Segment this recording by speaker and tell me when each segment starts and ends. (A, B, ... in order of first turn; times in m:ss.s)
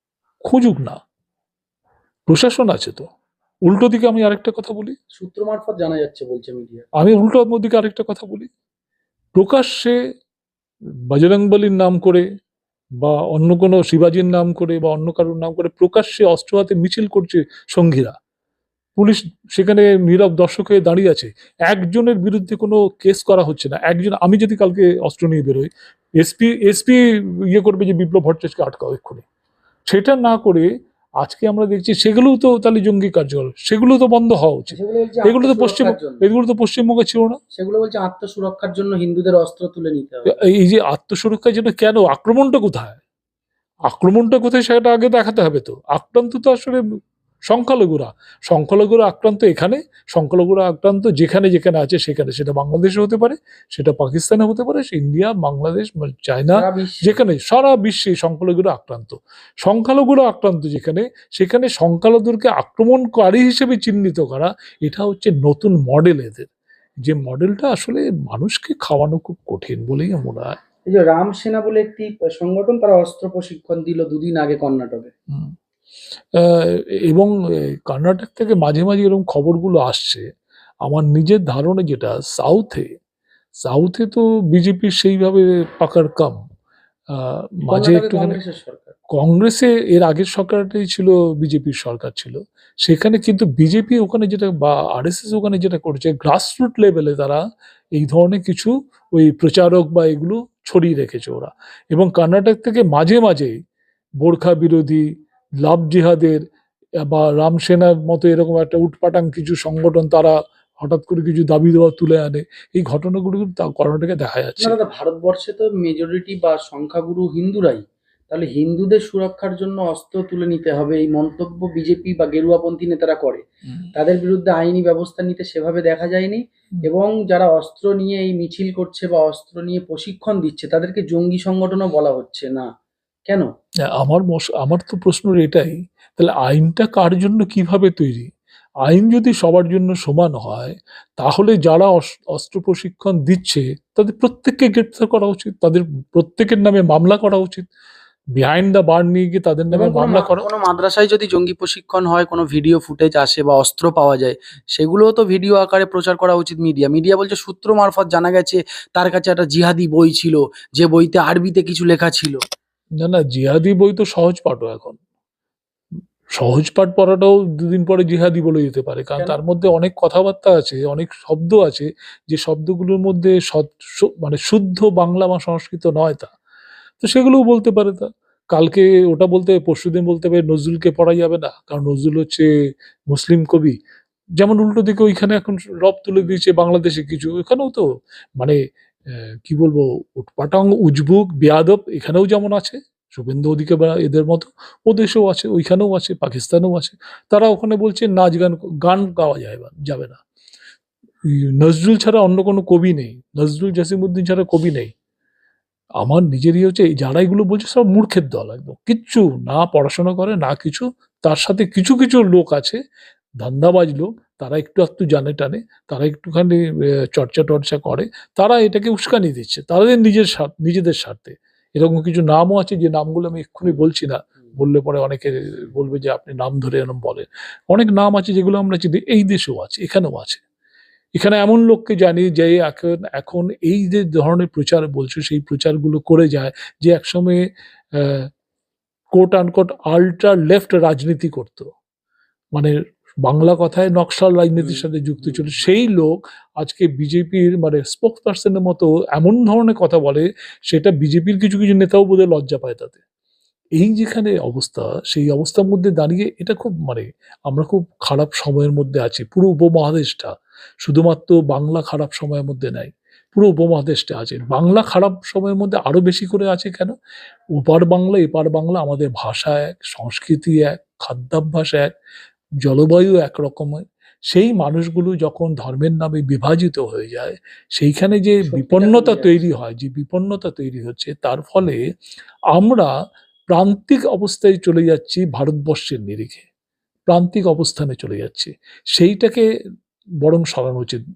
0:00.5-0:01.0 A
0:02.3-0:03.1 A
0:03.6-0:05.0 A
0:05.2-0:06.8 B
0:07.0-0:08.5 A
0:09.4-0:10.0 A
0:11.1-0:12.2 A
0:13.0-0:18.1 A
0:19.0-0:29.2 A
0:29.9-0:30.7 A
0:31.2-0:37.4 A
0:34.7-0:36.2 B
0:37.5-0:40.4 B
0:40.2-0:43.0 A
0:43.9-0:46.8 A
0:47.5-1:06.5 A
0:56.5-0:57.2 B
1:07.0-1:10.6 A
1:10.9-1:15.1 B
1:16.3-1:20.2 A
1:20.8-1:22.9 A
1:23.6-1:26.4 A
1:27.1-1:28.4 A
1:27.7-1:28.9 B
1:29.1-1:37.4 A
1:38.0-1:43.5 A
1:44.2-1:45.0 A
1:45.6-1:46.4 A
1:47.0-1:54.8 A
1:54.6-2:03.4 B
2:03.9-2:12.6 B
2:13.9-2:18.3 A
2:18.8-2:27.6 A
2:28.4-2:30.4 A
2:29.7-2:42.4 B
2:43.0-2:45.0 A
2:46.3-2:56.3 A
2:57.0-3:02.5 A
3:03.1-3:03.7 A
3:04.4-3:07.8 A
3:09.4-3:20.2 A
3:21.3-3:24.9 A
3:26.0-3:32.8 A
3:33.4-3:50.4 A
3:51.2-3:57.4 A
3:58.0-3:58.3 A
3:59.1-4:01.7 A
4:03.2-4:13.0 A
4:04.6-4:05.5 B
4:13.8-4:26.9 A
4:27.6-4:31.9 A
4:32.6-4:41.8 A
4:38.4-4:39.5 B
4:42.5-4:42.9 A
4:43.5-4:46.4 A
4:47.1-4:49.4 A
4:50.2-4:51.0 A